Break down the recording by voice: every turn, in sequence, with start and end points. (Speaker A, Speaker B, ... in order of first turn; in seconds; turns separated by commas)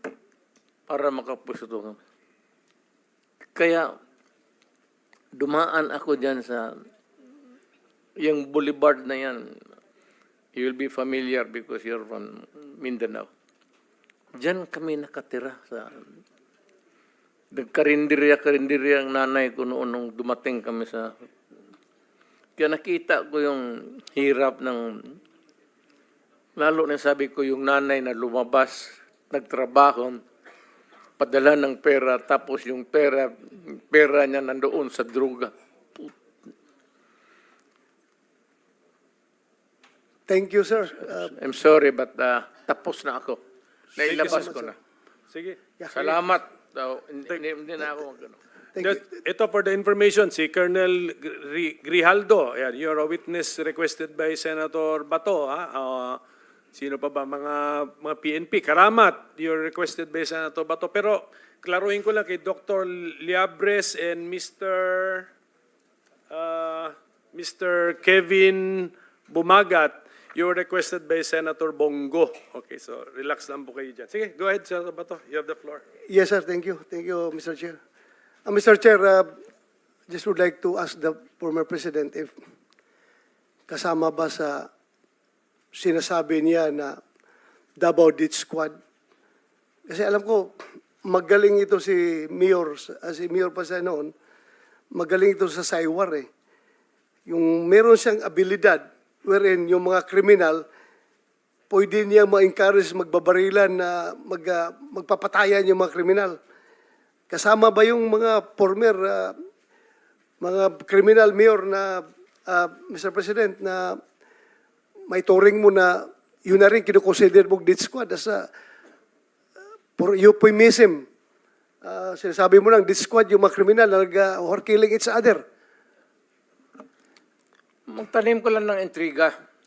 Speaker A: 0.9-2.0, Speaker A: 3.5-3.9, Speaker A: 5.3-6.8, Speaker A: 8.2-9.5, Speaker A: 10.6-13.3, Speaker A: 14.4-16.0, Speaker A: 17.5-21.1, Speaker A: 22.6-25.1, Speaker A: 26.6-30.2, Speaker A: 31.2-36.1, Speaker B: 40.3-41.3, Speaker A: 41.3-43.4, Speaker A: 43.9-44.8, Speaker B: 44.0-44.7, Speaker C: 44.1-44.6, Speaker C: 45.3-45.6, Speaker B: 45.8-46.1, Speaker A: 45.9-48.4, Speaker B: 48.8-49.0, Speaker C: 48.8-56.2, Speaker C: 56.7-65.3, Speaker C: 66.3-75.8, Speaker B: 76.1-77.8, Speaker B: 78.5-79.3, Speaker B: 80.1-82.3, Speaker B: 83.7-84.7, Speaker B: 85.7-87.0, Speaker B: 87.8-88.7, Speaker B: 89.9-94.1, Speaker B: 94.9-96.3, Speaker B: 97.3-100.6, Speaker B: 101.7-106.4, Speaker B: 107.3-109.3, Speaker B: 110.4-114.0, Speaker B: 115.1-118.5, Speaker B: 120.0-121.0, Speaker B: 121.8-125.4, Speaker A: 127.9-129.3